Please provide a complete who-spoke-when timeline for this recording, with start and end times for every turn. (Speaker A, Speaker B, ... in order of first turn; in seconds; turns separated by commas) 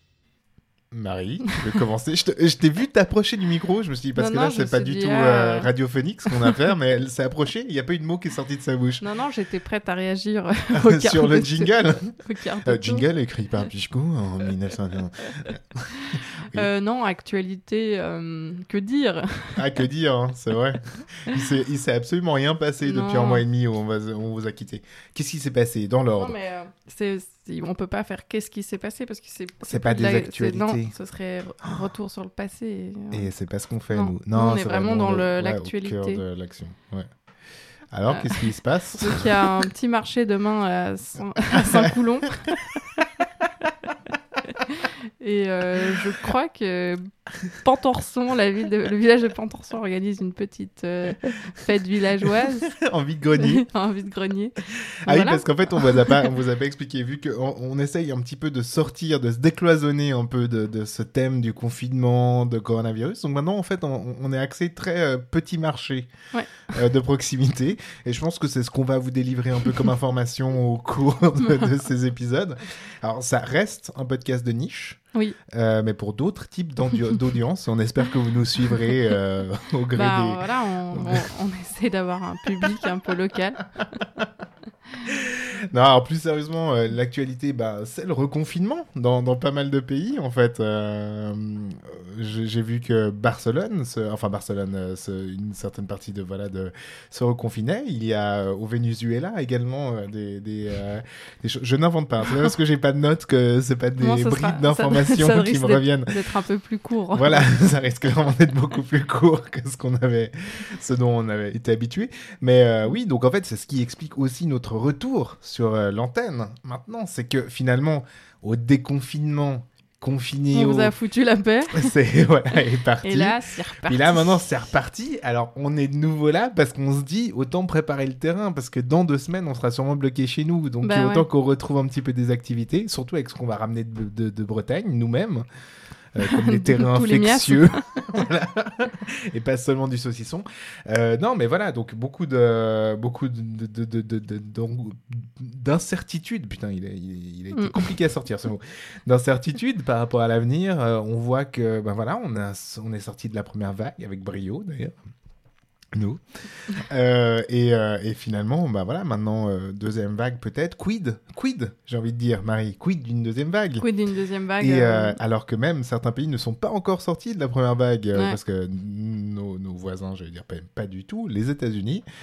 Speaker A: 0.9-9.0, Speaker B: 4.1-5.7, Speaker B: 9.0-13.1, Speaker A: 10.7-16.7, Speaker B: 16.5-19.6, Speaker A: 19.6-26.4, Speaker B: 22.8-23.4, Speaker B: 26.2-33.3, Speaker A: 29.6-30.9, Speaker A: 31.6-31.9, Speaker A: 33.1-37.1, Speaker B: 33.9-36.2, Speaker A: 37.9-39.6, Speaker B: 38.1-43.0, Speaker B: 44.5-52.7, Speaker A: 52.4-53.6, Speaker B: 53.4-56.3, Speaker A: 55.1-66.1, Speaker B: 66.3-66.6, Speaker A: 66.7-81.2, Speaker B: 79.9-83.7, Speaker A: 85.0-106.1, Speaker B: 104.0-107.5, Speaker A: 107.1-120.9, Speaker B: 120.5-121.9, Speaker A: 121.7-135.4, Speaker B: 123.0-124.5, Speaker B: 130.8-131.2, Speaker A: 136.1-154.9, Speaker B: 136.2-137.8, Speaker B: 147.5-147.9, Speaker A: 155.9-163.8, Speaker B: 163.8-165.2, Speaker A: 164.6-172.0, Speaker B: 168.1-168.4